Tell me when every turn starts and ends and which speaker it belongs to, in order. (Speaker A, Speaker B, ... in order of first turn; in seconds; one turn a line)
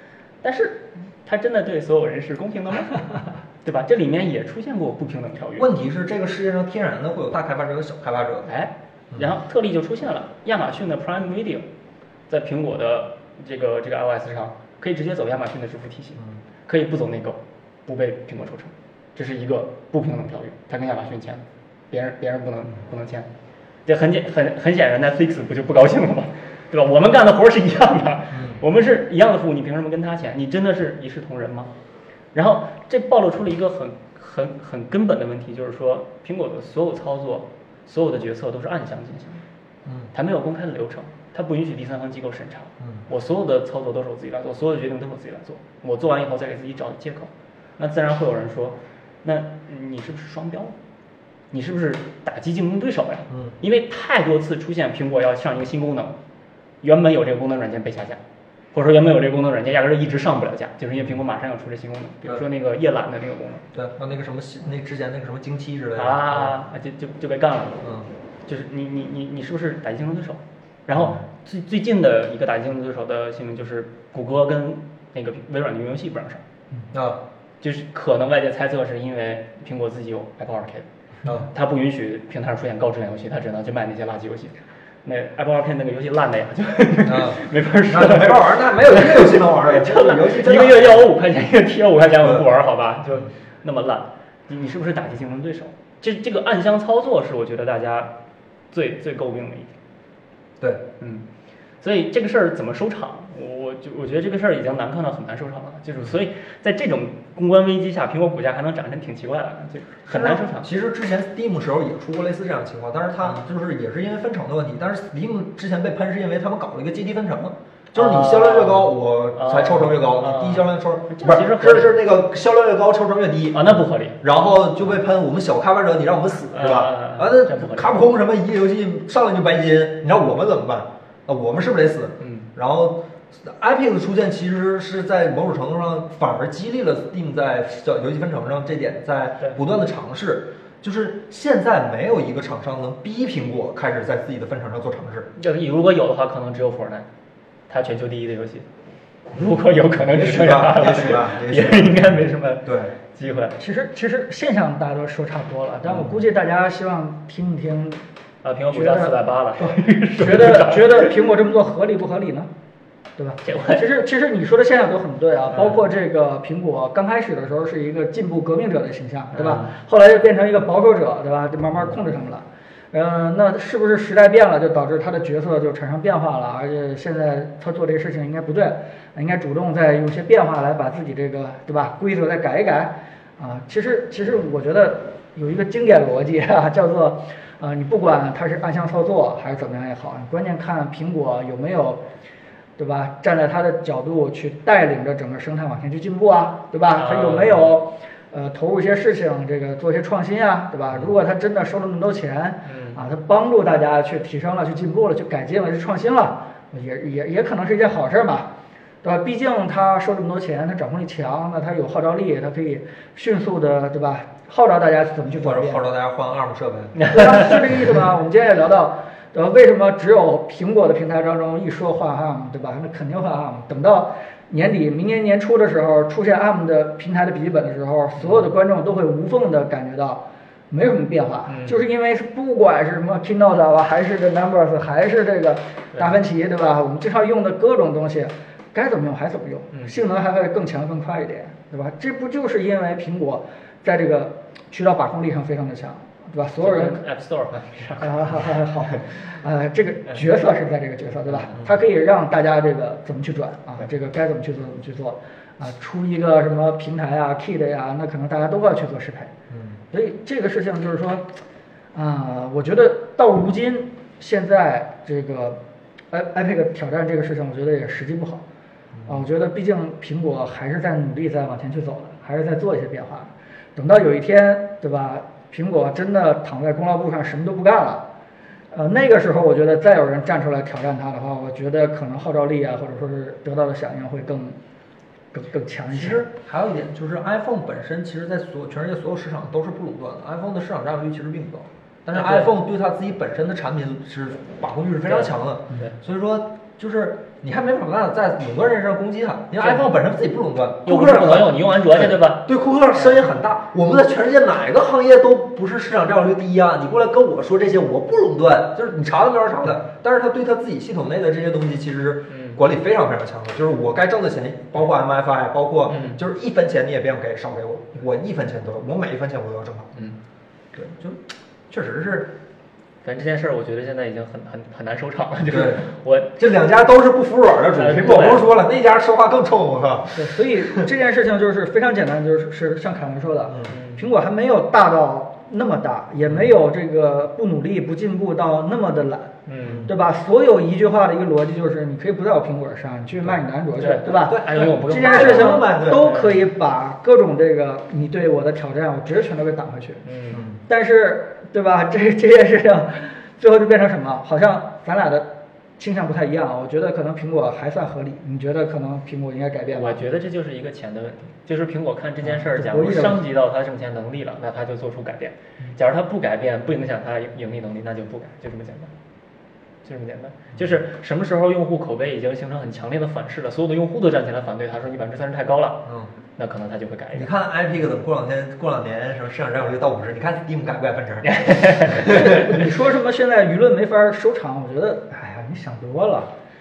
Speaker A: 0.4-5.7
Speaker B: 5.6-8.5
Speaker A: 8.4-11.6
Speaker A: 12.3-23.3
Speaker A: 23.9-31.7
Speaker B: 28.3-28.6
Speaker A: 32.3-39.4
Speaker A: 40.1-50.7
Speaker A: 51.5-56.1
Speaker B: 53.3-53.5
Speaker A: 56.8-58.2
Speaker A: 58.7-63.6
Speaker B: 63.7-66.5
Speaker A: 66.0-67.8
Speaker B: 67.8-68.1
Speaker A: 68.5-76.4
Speaker B: 70.9-71.2
Speaker B: 76.9-77.2
Speaker A: 77.6-80.9
Speaker A: 81.4-84.5
Speaker A: 85.0-98.1
Speaker B: 87.0-91.1
Speaker A: 98.7-99.7
Speaker A: 101.8-110.7
Speaker B: 110.1-145.3
Speaker A: 117.9-122.0
Speaker A: 123.5-124.2
Speaker A: 126.5-128.1
Speaker A: 132.2-132.5
Speaker A: 145.3-147.1
Speaker A: 147.7-148.7
Speaker A: 149.3-153.6
Speaker B: 150.1-152.9
Speaker C: 153.6-158.0
Speaker A: 158.4-161.2
Speaker C: 158.7-162.5
Speaker C: 163.2-192.0
Speaker A: 163.4-163.8
Speaker A: 165.5-165.8
Speaker A: 169.3-169.7
Speaker C: 192.8-208.5
Speaker A: 196.9-197.7
Speaker A: 202.7-203.0
Speaker C: 209.0-215.8
Speaker B: 215.3-216.9
Speaker A: 216.9-217.7
Speaker C: 217.1-247.0
Speaker A: 231.5-231.8
Speaker A: 246.6-248.6
Speaker C: 248.0-259.3
Speaker B: 259.5-259.8
Speaker C: 259.9-261.3
Speaker C: 261.9-265.6
Speaker C: 266.1-268.4
Speaker B: 268.9-269.2
Speaker C: 269.1-278.1
Speaker C: 278.7-284.6
Speaker C: 285.3-286.2
Speaker B: 285.9-319.9
Speaker A: 292.1-292.5
Speaker A: 295.1-295.9
Speaker A: 299.6-299.9
Speaker A: 300.9-302.5
Speaker A: 312.3-312.6
Speaker A: 315.9-316.2
Speaker B: 320.7-322.3
Speaker A: 323.0-326.4
Speaker B: 325.5-325.8
Speaker B: 326.4-330.9
Speaker A: 327.7-328.5
Speaker C: 330.1-350.0
Speaker B: 333.5-333.7
Speaker A: 333.7-334.1
Speaker A: 339.5-339.9
Speaker B: 339.6-339.9
Speaker A: 343.8-346.4
Speaker B: 344.2-346.1
Speaker A: 350.1-350.4
Speaker B: 350.3-350.6
Speaker C: 350.7-360.0
Speaker A: 359.7-368.9
Speaker C: 362.2-363.2
Speaker A: 369.8-375.8
Speaker A: 376.4-377.3
Speaker B: 377.1-381.4
Speaker A: 381.2-382.6
Speaker B: 381.9-382.2
Speaker C: 382.0-386.3